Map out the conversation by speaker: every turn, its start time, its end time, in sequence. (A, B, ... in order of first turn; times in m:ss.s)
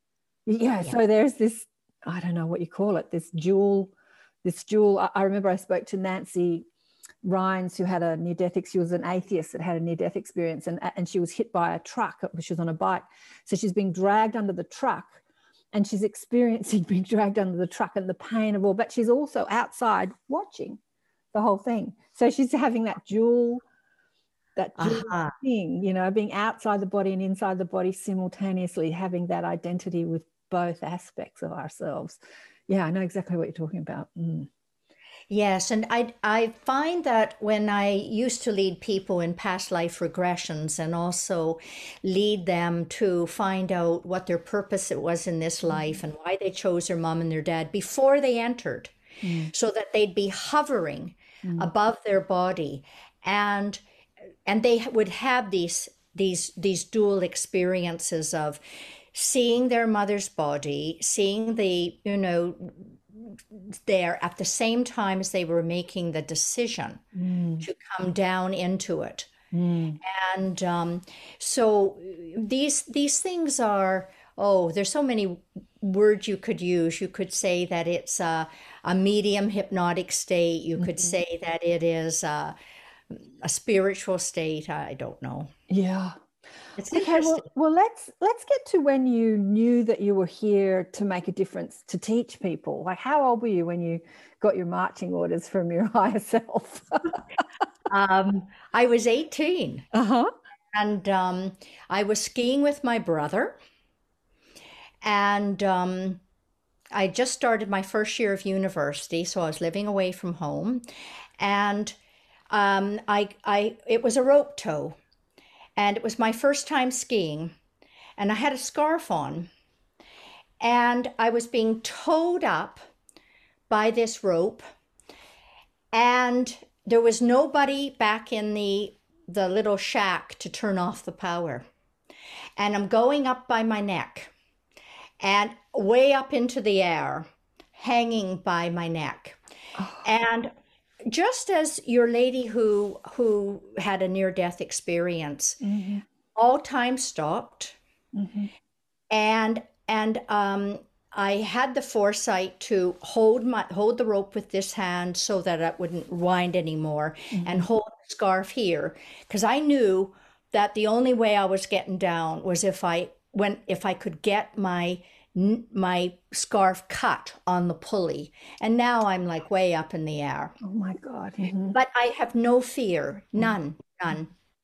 0:00.5-0:03.9 A
0:04.4-0:06.6 A
0:07.2-0:15.2 A
0:15.7-0:20.8 A
0:21.3-0:23.6 A
0:24.6-0:34.5 A
0:24.8-0:25.4 B
0:35.3-0:48.9 B
0:49.2-0:49.5 A
0:49.5-0:53.8 B
0:51.4-0:51.7 A
0:54.5-0:58.6 B
0:59.1-1:07.0 B
1:07.2-1:07.7 A
1:07.6-1:09.3 B
1:09.5-1:10.0 A
1:10.0-1:22.6 B
1:20.8-1:21.2 A
1:23.1-1:25.5 B
1:25.7-1:26.2 A
1:26.8-1:27.4 B
1:26.9-1:37.2 A
1:37.9-1:39.8 B
1:39.9-1:40.3 A
1:40.7-1:43.6 B
1:45.0-1:46.2 B
1:46.9-1:50.8 B
1:51.4-1:52.0 B
1:52.5-1:55.0 B
1:55.8-1:57.5 B
1:58.2-1:59.5 B
2:00.6-2:02.8 B
2:03.7-2:04.6 B
2:05.9-2:11.6 B
2:12.6-2:14.3 B
2:15.2-2:19.4 B
2:19.8-2:20.1 A
2:20.0-2:20.5 B
2:21.0-2:25.6 B
2:25.6-2:26.0 A
2:26.4-2:27.8 B
2:28.1-2:28.5 A
2:29.1-2:50.6 B
2:37.3-2:37.7 A
2:50.6-2:51.8 A
2:51.7-2:54.3 B